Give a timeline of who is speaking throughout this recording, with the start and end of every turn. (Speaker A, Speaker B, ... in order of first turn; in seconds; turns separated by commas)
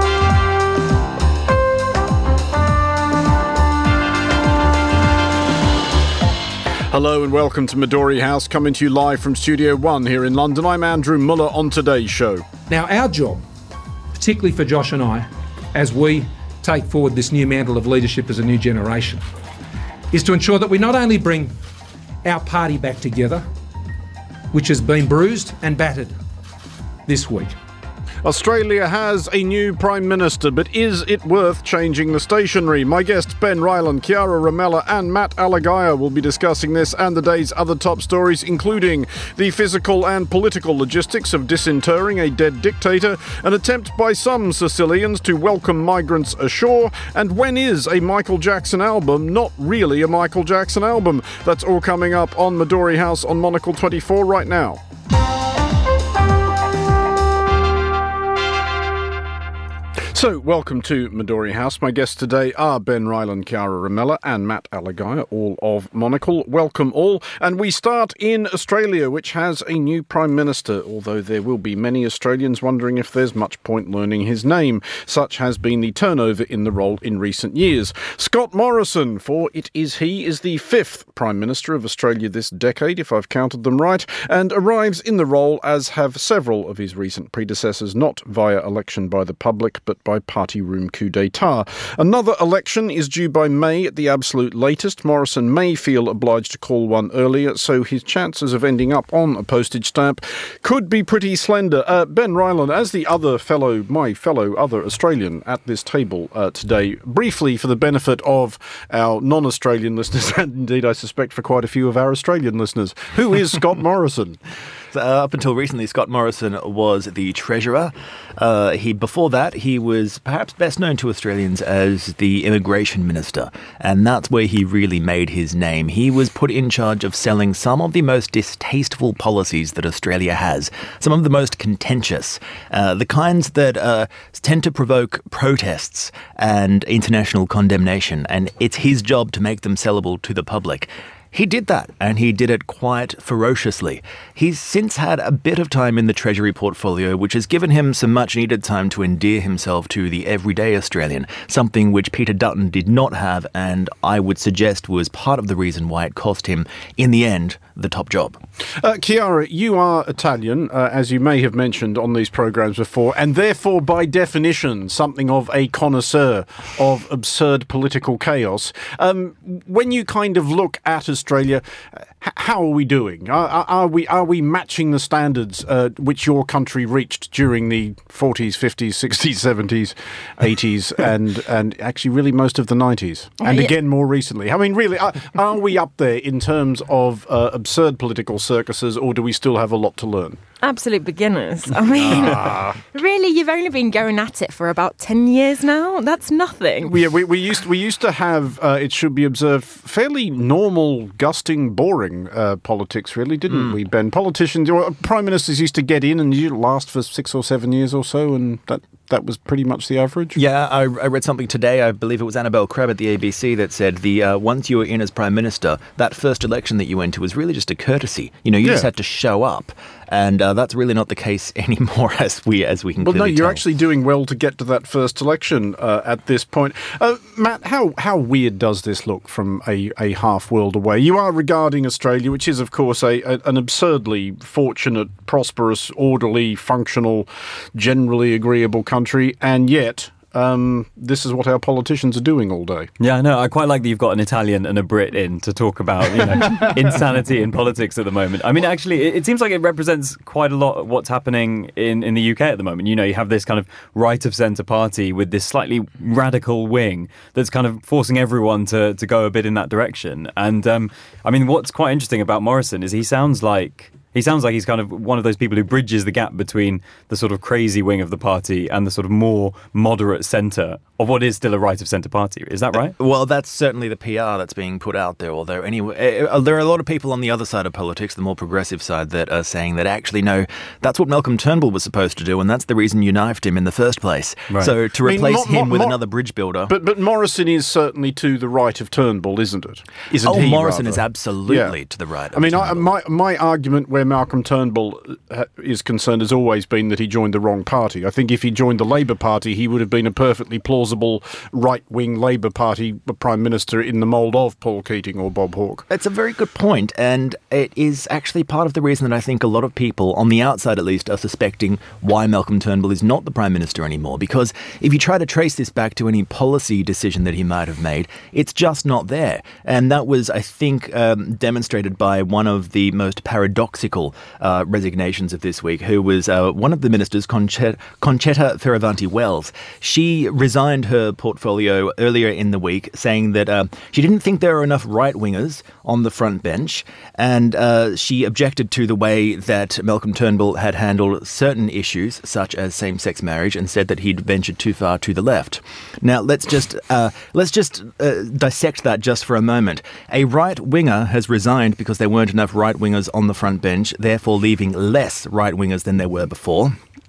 Speaker A: 6.9-12.4, Speaker B: 12.7-13.4, Speaker B: 14.2-15.2, Speaker B: 15.8-19.2, Speaker B: 20.1-21.5, Speaker B: 22.2-23.4, Speaker B: 24.5-26.1, Speaker B: 27.1-27.5, Speaker A: 28.2-54.8, Speaker A: 60.1-114.4, Speaker C: 114.9-158.4, Speaker A: 158.8-171.6, Speaker A: 172.2-190.4, Speaker D: 183.4-183.7, Speaker D: 190.6-197.0, Speaker A: 191.9-192.8, Speaker A: 196.8-210.4, Speaker C: 210.3-223.6, Speaker A: 218.6-218.9, Speaker A: 223.0-242.9, Speaker E: 243.0-272.9, Speaker C: 272.8-286.7, Speaker A: 285.0-286.0, Speaker A: 286.7-291.8, Speaker C: 290.2-292.9, Speaker A: 292.3-305.9, Speaker C: 305.9-356.8